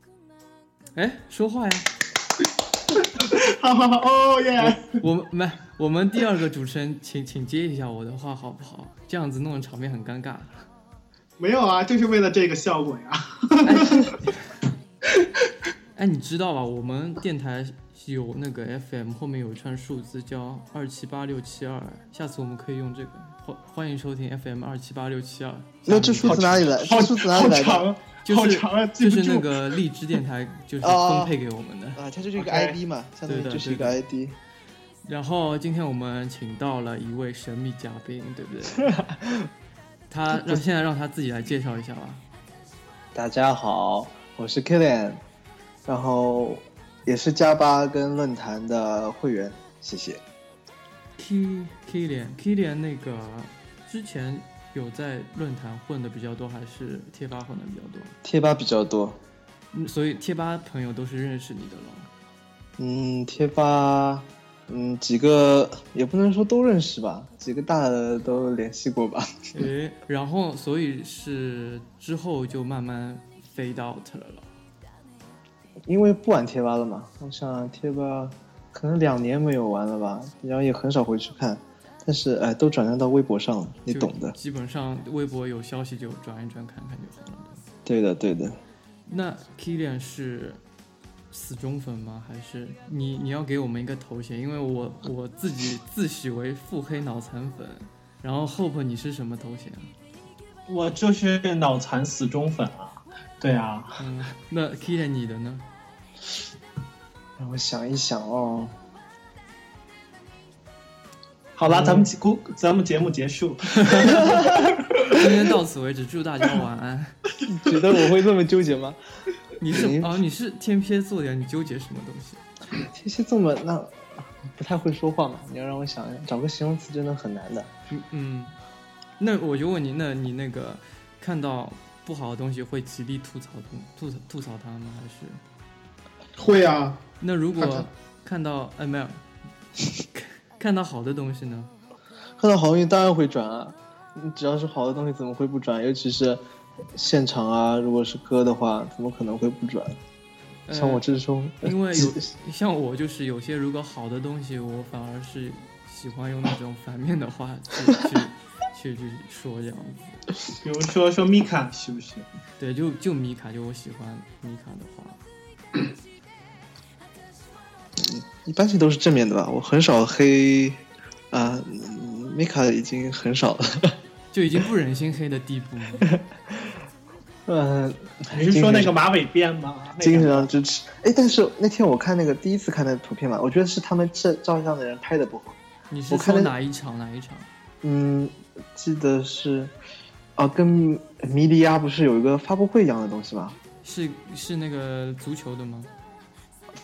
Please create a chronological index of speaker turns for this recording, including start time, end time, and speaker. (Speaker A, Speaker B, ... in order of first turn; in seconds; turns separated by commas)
Speaker A: 0.9-1.9, Speaker B: 3.0-4.9, Speaker A: 4.6-10.6, Speaker B: 11.4-14.1, Speaker A: 13.6-14.6, Speaker A: 15.9-26.6, Speaker C: 25.9-27.9, Speaker B: 26.2-29.8, Speaker A: 28.2-32.0, Speaker C: 30.8-31.4, Speaker C: 31.9-34.4, Speaker B: 32.4-32.8, Speaker A: 33.2-34.0, Speaker A: 35.0-39.0, Speaker C: 38.9-39.5, Speaker A: 40.1-42.2, Speaker C: 43.1-45.2, Speaker C: 45.9-50.2, Speaker A: 51.2-58.1, Speaker C: 58.2-59.2, Speaker A: 59.7-62.1, Speaker C: 62.8-69.4, Speaker A: 69.5-74.5, Speaker C: 75.8-84.3, Speaker A: 83.9-87.6, Speaker C: 87.8-88.6, Speaker A: 89.0-90.6, Speaker A: 91.3-99.9, Speaker B: 100.7-104.0, Speaker A: 104.0-105.6, Speaker C: 107.4-108.8, Speaker B: 111.5-115.1, Speaker A: 111.7-112.0, Speaker A: 113.8-114.5, Speaker A: 115.0-117.1, Speaker C: 117.5-119.0, Speaker A: 119.6-122.4, Speaker C: 119.7-120.2, Speaker C: 122.8-127.7, Speaker A: 127.9-128.5, Speaker A: 129.2-135.4, Speaker B: 136.4-137.0, Speaker A: 137.2-139.2, Speaker B: 137.6-137.8, Speaker A: 140.0-141.7, Speaker C: 142.4-146.4, Speaker C: 146.9-150.0, Speaker A: 150.7-151.0, Speaker C: 150.7-152.3, Speaker A: 151.6-160.2, Speaker B: 160.6-162.2, Speaker A: 162.6-165.2, Speaker C: 168.0-173.9, Speaker A: 174.3-176.1, Speaker C: 176.1-176.7, Speaker C: 177.4-178.9, Speaker B: 178.3-180.5, Speaker C: 180.0-185.6, Speaker A: 185.9-187.5, Speaker C: 186.1-186.5, Speaker C: 187.8-189.7, Speaker C: 190.4-193.6, Speaker A: 193.8-195.9